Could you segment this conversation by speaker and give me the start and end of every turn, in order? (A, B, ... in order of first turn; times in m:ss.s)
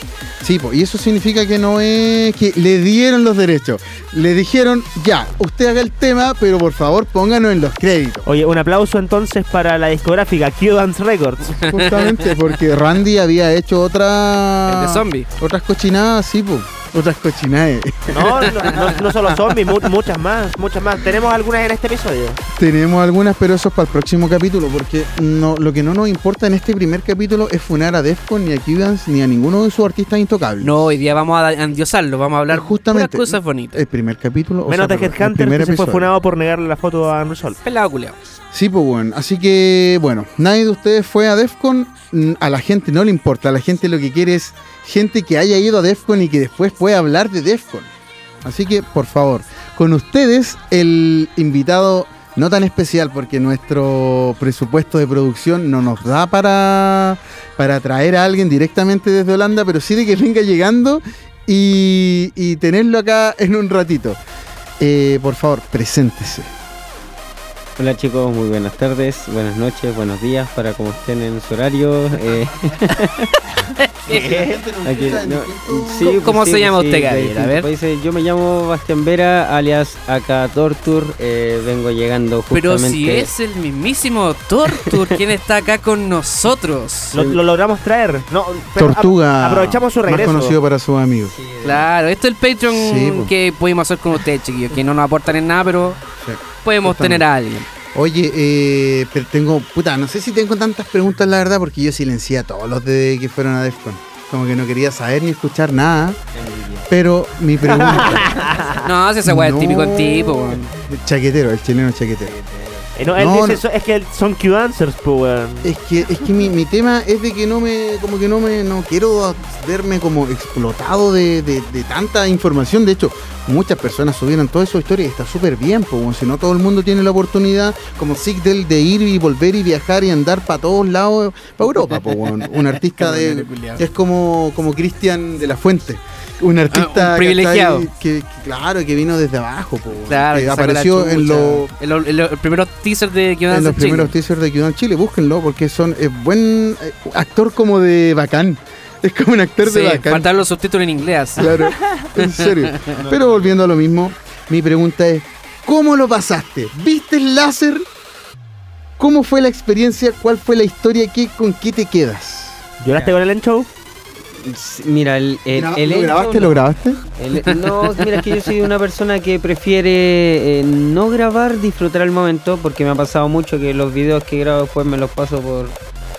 0:00.4-0:08.3 A
0:08.3-0:11.6 B
0:11.6-0:19.3 A
0:11.6-0:12.4 C
0:14.7-0:15.3 C
0:18.1-0:22.4 B
0:22.5-0:31.0 A
0:30.6-0:33.8 C
0:32.5-0:36.1 A
0:34.7-0:37.6 B
0:37.6-0:38.2 C
0:38.5-0:47.9 A
0:48.4-1:04.2 A
1:04.8-1:06.5 A
1:07.8-1:13.3 D
1:12.3-1:12.7 A
1:14.0-1:16.2 A
1:14.1-1:14.4 C
1:14.1-1:14.6 B
1:14.8-1:23.3 D
1:16.0-1:17.7 C
1:22.5-1:27.2 C
1:24.8-1:25.1 D
1:27.1-1:30.6 B
1:28.8-1:31.4 A
1:31.3-1:31.9 D
1:31.6-1:36.0 C
1:32.7-1:33.3 A
1:36.2-1:37.3 A
1:36.6-1:37.7 C
1:37.9-1:46.2 A
1:46.3-1:46.9 D
1:46.9-1:48.4 A
1:47.7-1:48.8 B
1:48.8-1:50.7 C
1:49.2-1:52.3 A
1:52.2-1:52.9 D
1:53.0-1:55.7 B
1:53.2-1:53.6 A
1:55.6-2:21.7 A
2:11.9-2:13.8 C
2:16.7-2:17.9 C
2:20.1-2:24.1 C
2:23.5-2:30.3 A
2:29.6-2:31.6 C
2:31.4-2:37.9 A
2:32.2-2:33.0 C
2:33.0-2:33.6 D
2:39.0-2:42.6 A
2:42.8-2:43.7 B
2:44.4-2:46.6 D
2:45.5-2:47.0 A
2:47.2-2:55.8 D